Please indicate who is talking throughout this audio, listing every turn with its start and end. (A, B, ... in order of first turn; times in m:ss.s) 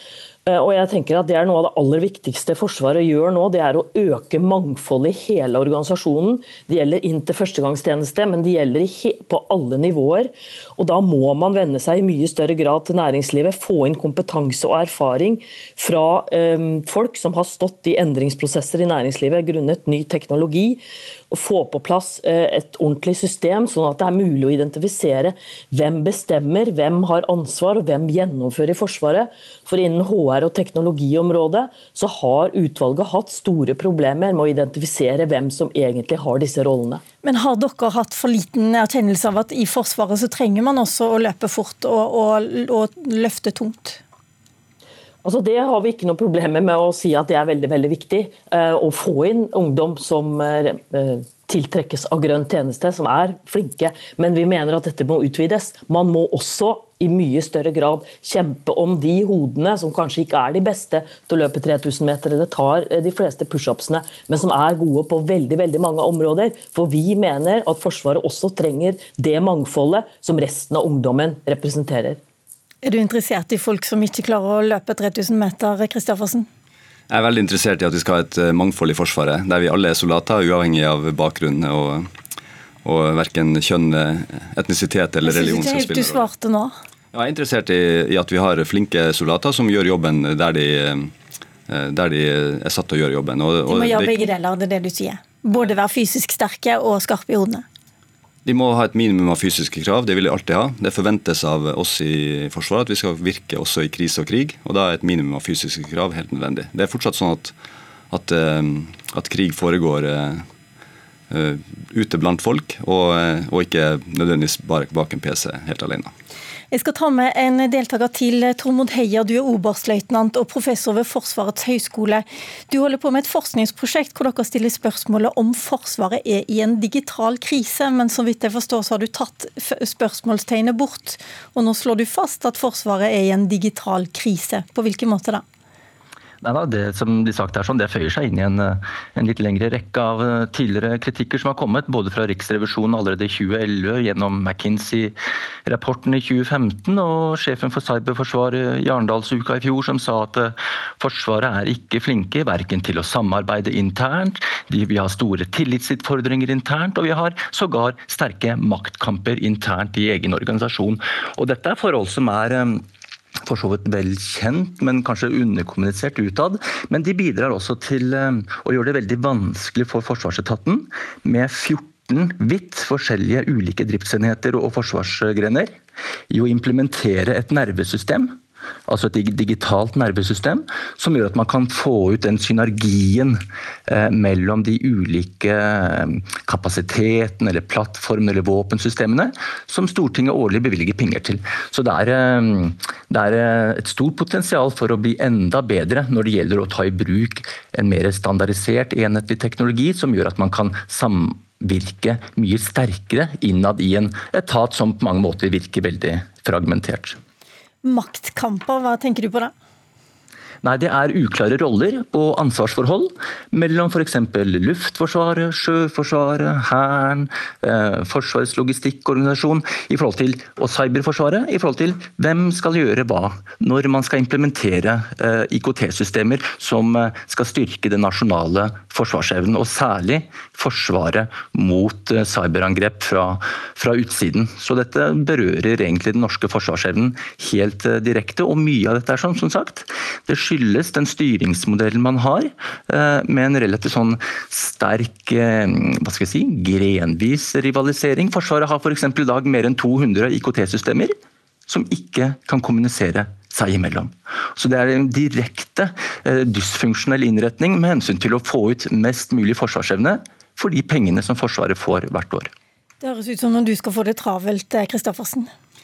0:00.5-0:37.0 A
0:37.2-0:44.0 B
0:45.2-1:12.2 A
1:12.8-1:16.5 B
1:17.1-1:22.1 C
1:22.8-1:26.2 C
1:25.2-1:26.7 B
1:27.1-1:31.1 C
1:31.7-1:34.3 C
1:33.7-1:37.6 B
1:38.5-1:47.5 C
1:48.1-1:50.4 C
1:51.3-1:56.1 C
1:56.7-2:15.4 B
2:16.4-2:42.8 D
2:43.5-2:55.7 D
2:56.3-2:58.4 D
2:58.9-3:27.2 D
3:27.8-3:29.5 B
3:30.6-4:11.1 D
4:11.7-4:22.5 D
4:23.0-4:25.5 B